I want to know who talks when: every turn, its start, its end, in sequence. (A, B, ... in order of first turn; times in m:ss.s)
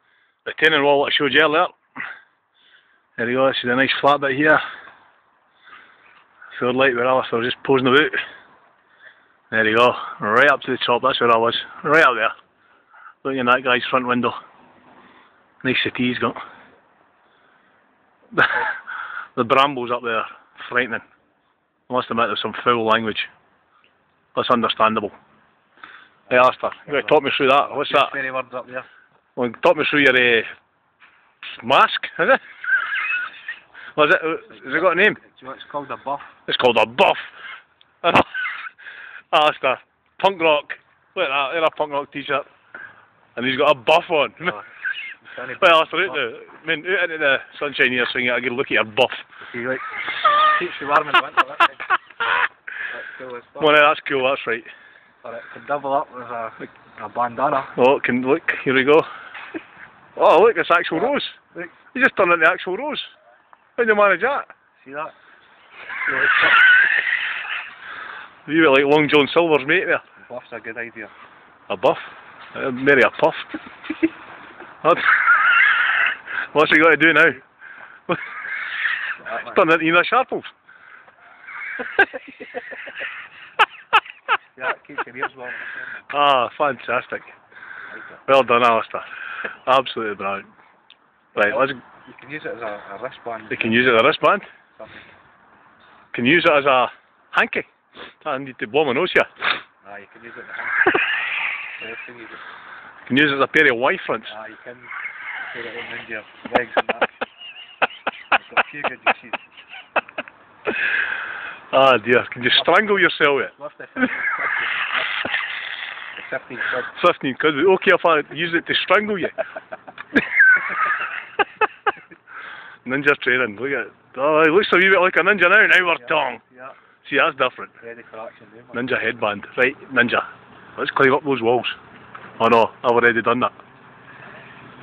0:00.4-0:01.7 A
0:03.2-0:04.6 A
0:06.5-0:08.2 A
0:09.5-0:12.3 A
0:13.2-0:14.4 A
0:15.6-0:16.4 A
0:18.3-0:18.7 A
0:19.4-0:21.0 A
0:21.9-0:23.3 A
0:24.3-0:25.1 A
0:26.3-0:28.2 A
0:26.3-0:28.9 B
0:29.4-0:30.5 A
0:31.5-0:32.4 A
0:34.0-0:35.2 A
0:34.4-0:36.4 B
0:36.5-0:37.3 A
0:38.0-0:38.3 A
0:39.3-0:42.5 A
0:43.4-0:44.6 A
0:45.2-0:46.2 B
0:45.6-0:49.3 A
0:49.4-0:51.8 B
0:52.9-0:53.9 B
0:53.6-0:54.7 A
0:55.2-0:57.7 B
0:57.7-0:59.0 A
1:00.2-1:01.4 A
1:01.0-1:01.7 B
1:01.9-1:03.1 A
1:03.8-1:04.5 A
1:04.8-1:05.1 B
1:06.0-1:06.6 B
1:08.4-1:10.0 A
1:10.2-1:11.1 B
1:11.7-1:13.6 A
1:14.8-1:15.3 A
1:16.5-1:17.4 A
1:19.2-1:20.5 A
1:19.2-1:19.6 B
1:24.6-1:26.1 B
1:26.1-1:27.3 A
1:27.9-1:28.2 B
1:28.3-1:29.1 A
1:29.6-1:30.5 A
1:31.4-1:31.8 A
1:31.4-1:33.9 B
1:33.5-1:34.5 A
1:34.7-1:35.1 B
1:36.1-1:37.7 A
1:38.2-1:39.3 A
1:39.8-1:40.9 B
1:41.8-1:42.4 B
1:43.1-1:44.3 A
1:44.3-1:47.2 B
1:48.3-1:49.5 B
1:51.7-1:53.5 A
1:52.5-1:55.0 B
1:56.2-1:56.9 B
1:56.8-1:59.4 A
2:02.8-2:06.4 A
2:06.0-2:06.8 B
2:07.0-2:07.8 A
2:07.8-2:08.9 B
2:08.7-2:11.8 A
2:12.4-2:13.5 A